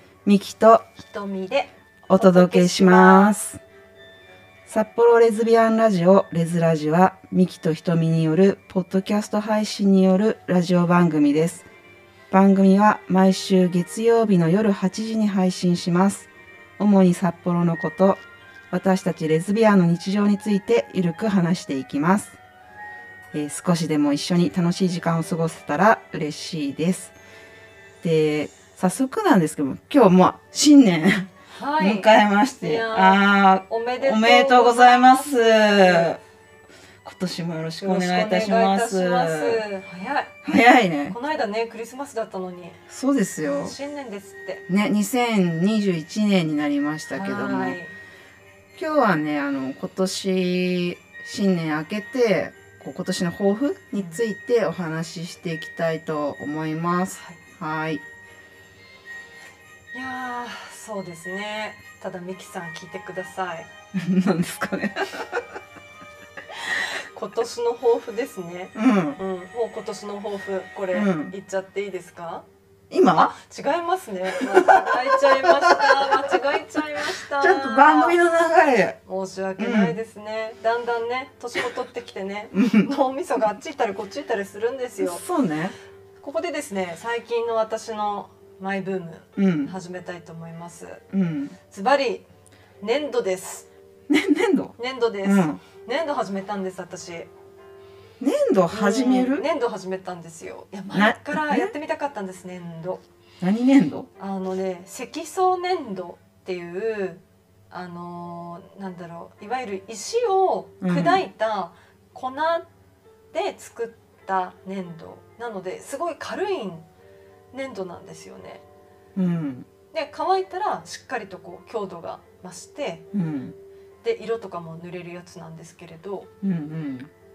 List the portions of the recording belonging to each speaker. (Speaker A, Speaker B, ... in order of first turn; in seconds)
Speaker A: 0.2-0.9, 2.1-3.6, 4.7-11.7, 12.3-18.2, 18.7-22.4, 23.3-27.2, 28.0-36.2, 37.0-39.6, 40.4-41.2, 42.9-43.8, 44.7-47.8, 48.8-58.0, 63.9-65.5, 68.8-69.2, 70.9-71.3, 72.9-73.3, 74.4-76.3, 77.0-79.0, 79.6-80.0, 82.5-82.9, 85.0-85.8, 89.4-89.8, 91.1-91.6, 94.1-95.6, 98.2-99.5, 100.9-101.7, 103.4-104.1, 110.8-111.2, 119.2-119.7, 123.1-123.6, 126.4-127.1
Speaker B: 1.0-3.4, 31.5-32.1, 32.6-36.1, 37.8-40.3, 41.1-42.8, 43.4-44.6, 47.1-47.9, 57.1-57.4, 59.9-63.7, 66.7-72.5, 73.1-78.2, 79.1-85.2, 86.2-91.0, 91.7-92.2, 92.8-93.7, 94.8-97.3, 98.7-103.0, 104.2-112.7, 113.3-116.9, 117.5-118.6, 119.9-123.1, 124.0-126.3